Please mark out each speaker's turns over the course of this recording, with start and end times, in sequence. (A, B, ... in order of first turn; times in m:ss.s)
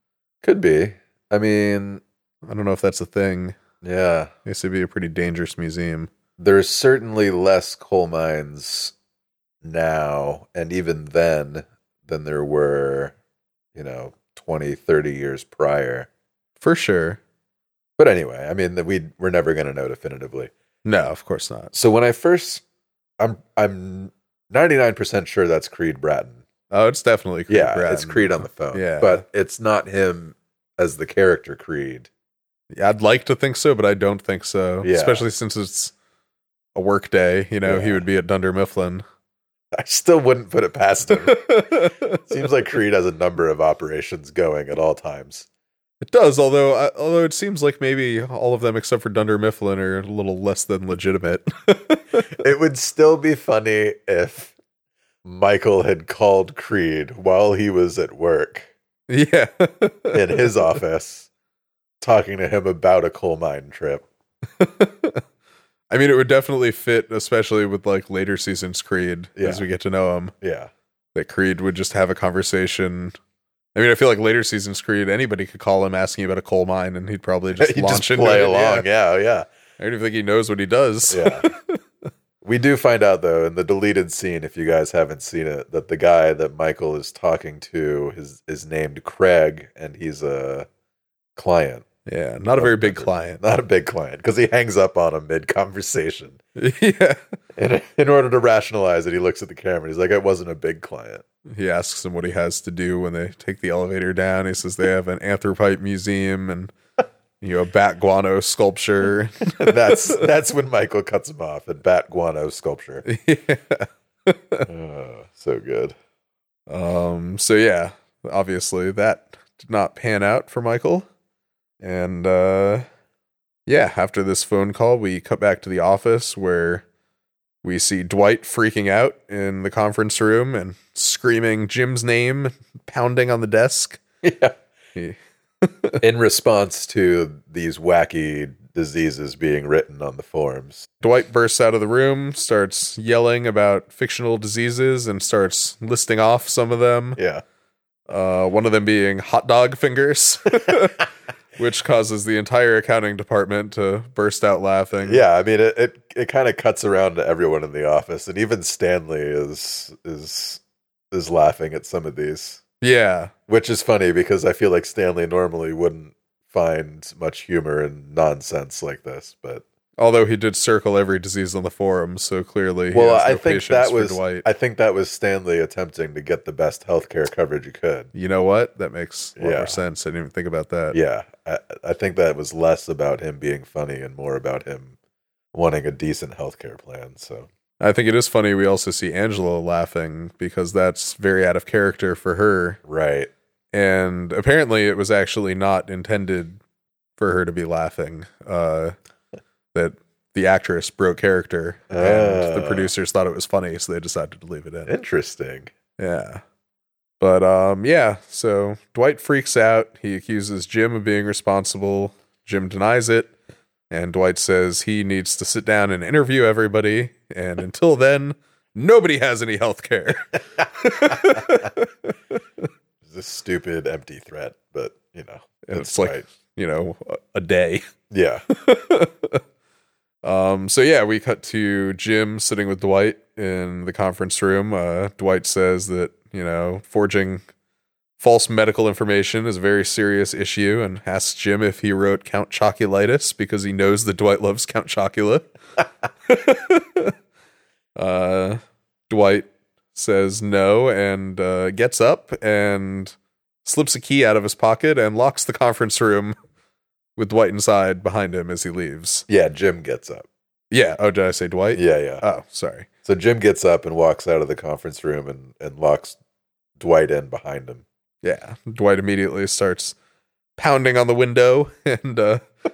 0:00.4-0:02.0 A
0:02.4-0:03.6 B
0:03.8-0:04.3 A
0:04.4-0:06.1 B
0:06.4-0:08.9 A
0:09.6-0:13.1 A
0:13.7-0:16.1 A
0:16.6-0:17.2 B
0:18.0-0:20.5 A
0:20.8-0:21.7 B
0:21.7-0:22.6 A
0:23.2-0:26.4 A
0:26.7-0:29.2 B
0:27.5-0:32.1 A
0:32.7-0:35.9 B
0:34.8-0:35.2 A
0:36.7-0:39.0 B
0:37.6-0:38.0 A
0:39.7-0:45.5 A
0:41.2-0:42.2 B
0:46.0-0:52.2 B
0:52.4-0:54.5 A
0:55.2-0:58.7 A
0:59.1-1:00.8 B
1:00.1-1:01.3 A
1:02.0-1:04.0 A
1:04.6-1:05.2 B
1:05.9-1:10.3 B
1:09.4-1:09.6 A
1:10.4-1:10.7 A
1:11.1-1:13.2 B
1:13.7-1:18.9 B
1:17.6-1:19.5 A
1:19.8-1:21.8 B
1:21.1-1:21.5 A
1:22.4-1:30.7 A
1:31.4-1:31.8 A
1:32.0-1:33.4 B
1:32.6-1:36.4 A
1:36.6-1:37.2 B
1:37.6-1:41.2 A
1:41.5-1:46.7 B
1:47.4-1:50.2 B
1:49.6-1:53.0 A
1:53.0-1:54.7 B
1:54.7-1:55.9 A
1:56.7-2:01.0 B
2:01.8-2:02.8 B
2:03.7-2:06.8 B
2:07.6-2:14.0 B
2:14.2-2:14.6 A
2:15.0-2:16.0 B
2:16.0-2:20.8 A
2:21.0-2:27.2 B
2:27.2-2:27.4 A
2:28.1-2:31.0 B
2:31.6-2:35.2 B
2:35.0-2:40.6 A
2:41.1-2:42.6 A
2:42.8-2:43.3 B
2:43.5-2:49.6 A
2:50.0-2:54.4 B
2:52.9-2:58.1 A
2:58.1-3:01.0 B
2:59.4-2:59.8 A
3:00.9-3:04.9 A
3:05.5-3:07.5 A
3:07.8-3:12.8 B
3:12.8-3:13.3 A
3:13.7-3:16.6 B
3:17.2-3:18.9 B
3:19.7-3:24.9 B
3:21.9-3:22.9 A
3:24.8-3:25.7 A
3:26.0-3:26.4 B
3:27.2-3:33.3 B
3:33.9-3:42.1 B
3:43.0-3:46.2 A
3:45.6-3:47.8 B
3:48.1-3:48.4 A
3:48.5-3:49.4 B
3:50.2-3:57.4 B
3:58.2-4:05.5 B
4:06.3-4:07.1 B
4:08.0-4:16.4 B
4:17.2-4:19.2 B
4:19.3-4:20.3 A
4:20.7-4:22.9 B
4:21.7-4:22.2 A
4:23.0-4:26.2 A
4:26.8-4:27.8 A
4:28.2-4:29.9 B
4:30.6-4:32.4 B